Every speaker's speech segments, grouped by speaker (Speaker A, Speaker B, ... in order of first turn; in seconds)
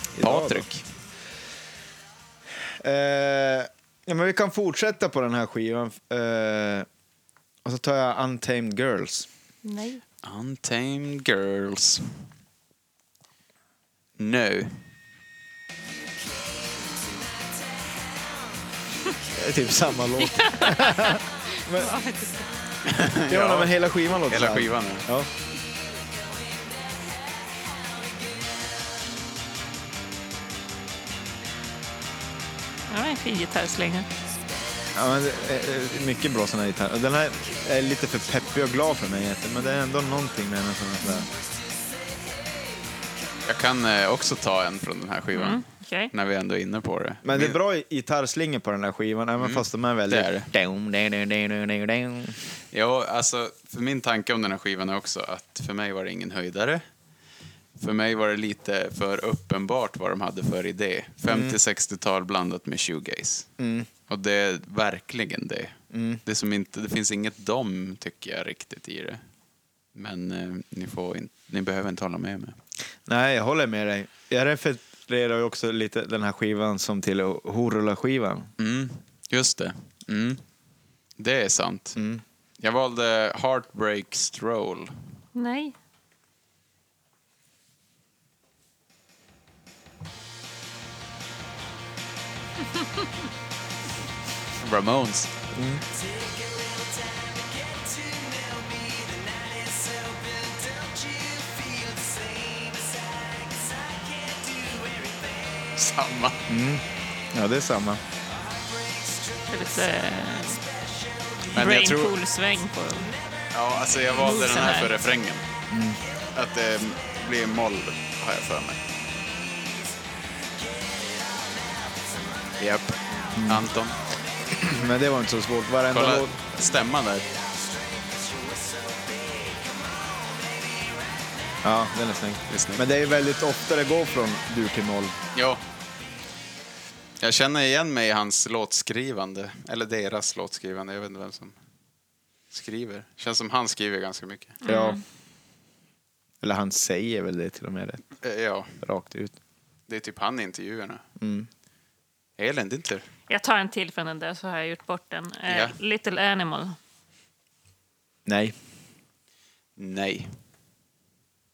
Speaker A: 0.1-0.7, 2.7-6.9, 7.6-9.3, 19.3-21.9, 23.1-25.3, 34.9-41.3, 47.2-52.4, 61.3-61.6, 63.6-63.9, 65.9-66.2, 73.1-78.5, 82.0-82.2, 95.5-95.8, 106.5-108.0, 115.7-116.0, 123.3-123.7, 124.5-126.4, 131.6-135.1, 144.7-145.0, 146.4-148.0, 148.8-149.4, 151.2-151.5, 158.2-158.5
Speaker B: 0.2-0.8, 10.2-12.2, 14.2-14.8, 22.9-25.1, 43.5-47.6, 49.4-50.5, 52.7-56.8, 57.8-63.5, 64.1-69.2, 69.9-72.6, 78.6-80.4, 81.2-82.0, 82.6-85.0, 94.6-95.3, 105.7-106.4, 111.5-112.1, 113.5-115.4, 116.3-118.8, 122.6-124.0, 125.9-127.3, 132.5-132.9, 135.3-135.6, 137.2-141.6, 142.5-144.6, 148.2-148.8, 149.9-151.0, 152.4-153.1, 155.5-155.8, 159.8-160.3
Speaker C: 9.6-10.0, 20.2-22.5, 32.9-34.1, 45.3-46.1, 85.3-85.7, 109.5-110.6, 111.5-113.1, 114.2-114.9, 144.6-145.0, 153.3-156.8